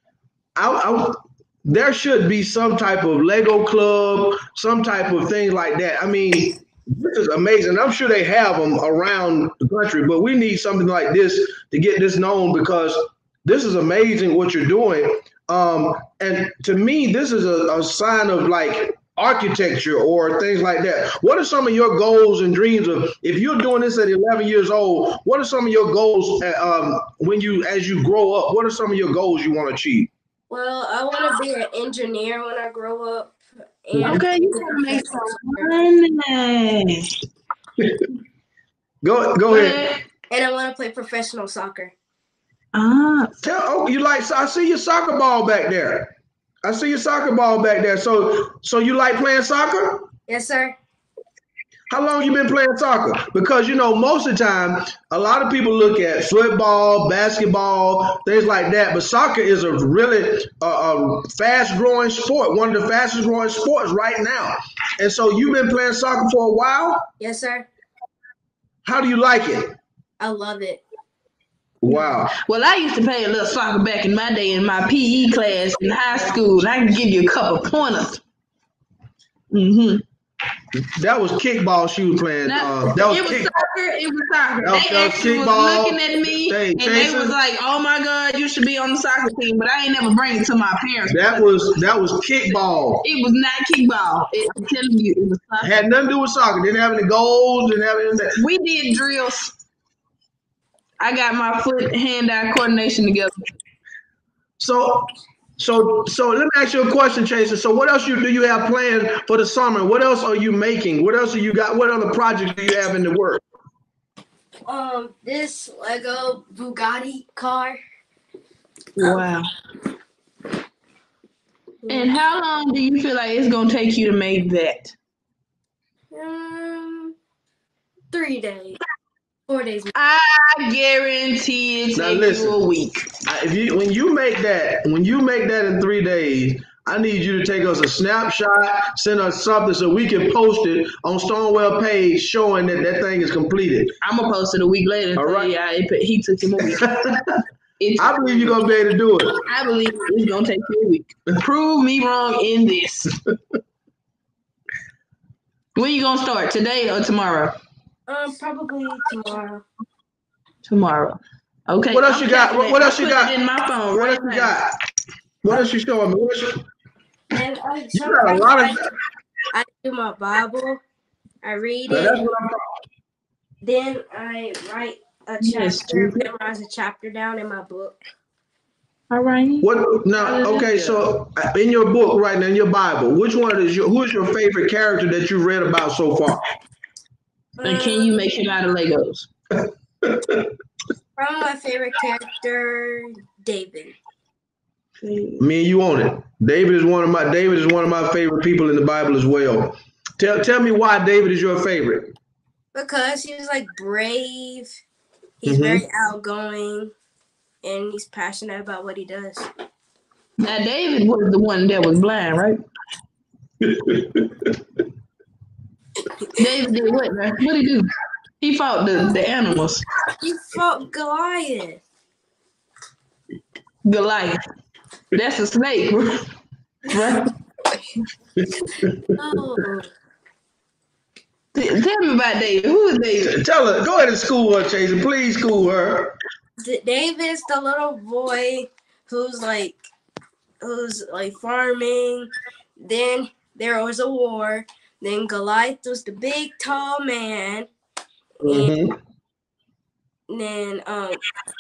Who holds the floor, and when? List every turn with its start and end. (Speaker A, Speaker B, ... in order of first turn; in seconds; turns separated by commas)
Speaker A: 0.6-30.1, Speaker B: 30.5-35.8, Speaker A: 34.0-34.2, Speaker C: 34.0-37.1, Speaker A: 37.8-38.1, Speaker A: 39.0-39.8, Speaker C: 39.5-40.0, Speaker B: 40.3-41.9, Speaker C: 42.7-43.4, Speaker A: 43.4-50.1, Speaker B: 50.3-50.8, Speaker A: 51.9-67.1, Speaker B: 67.2-67.7, Speaker A: 68.8-69.8, Speaker B: 70.2-70.8, Speaker A: 71.8-72.3, Speaker C: 72.3-78.2, Speaker C: 79.5-80.0, Speaker A: 80.7-83.5, Speaker C: 82.5-91.6, Speaker A: 84.6-87.4, Speaker A: 91.1-93.0, Speaker C: 93.0-95.8, Speaker A: 95.6-98.4, Speaker C: 98.4-99.5, Speaker C: 101.0-103.3, Speaker A: 104.6-113.4, Speaker B: 114.7-117.8, Speaker C: 119.0-119.5, Speaker B: 121.8-122.2, Speaker C: 121.9-125.0, Speaker B: 126.1-127.2, Speaker B: 128.1-128.8, Speaker B: 129.5-129.9, Speaker C: 129.9-133.1, Speaker A: 131.9-132.6, Speaker A: 133.3-143.9, Speaker C: 144.0-147.2, Speaker A: 145.2-145.5, Speaker A: 146.6-147.3, Speaker C: 147.8-148.6, Speaker A: 148.0-149.4, Speaker C: 149.5-153.2, Speaker C: 155.8-157.6, Speaker B: 158.1-159.7, Speaker C: 160.7-164.6, Speaker A: 161.9-163.4, Speaker A: 163.9-164.7, Speaker A: 165.4-166.7, Speaker B: 167.3-168.9, Speaker A: 167.9-168.9, Speaker B: 169.5-170.8, Speaker B: 171.4-172.2, Speaker A: 171.9-172.6, Speaker B: 173.6-178.0, Speaker C: 175.4-176.3, Speaker C: 179.1-181.1, Speaker A: 179.6-186.4, Speaker B: 187.6-188.3, Speaker C: 187.6-189.3, Speaker A: 190.0-190.5, Speaker B: 191.2-193.9, Speaker C: 195.0-195.4, Speaker A: 195.4-202.1, Speaker B: 202.8-204.8, Speaker B: 205.4-206.9, Speaker A: 205.5-205.8, Speaker B: 207.6-209.5, Speaker C: 210.4-212.6, Speaker A: 213.6-214.6, Speaker C: 216.4-217.9, Speaker C: 218.4-219.8, Speaker B: 220.2-221.8, Speaker C: 223.8-224.4, Speaker C: 225.1-226.3, Speaker C: 226.9-227.3, Speaker A: 228.4-229.1, Speaker B: 229.2-229.9, Speaker C: 231.5-233.4, Speaker A: 233.2-236.2, Speaker B: 236.6-239.8, Speaker B: 240.6-247.7, Speaker B: 248.4-248.7, Speaker A: 248.4-249.0, Speaker B: 250.3-251.2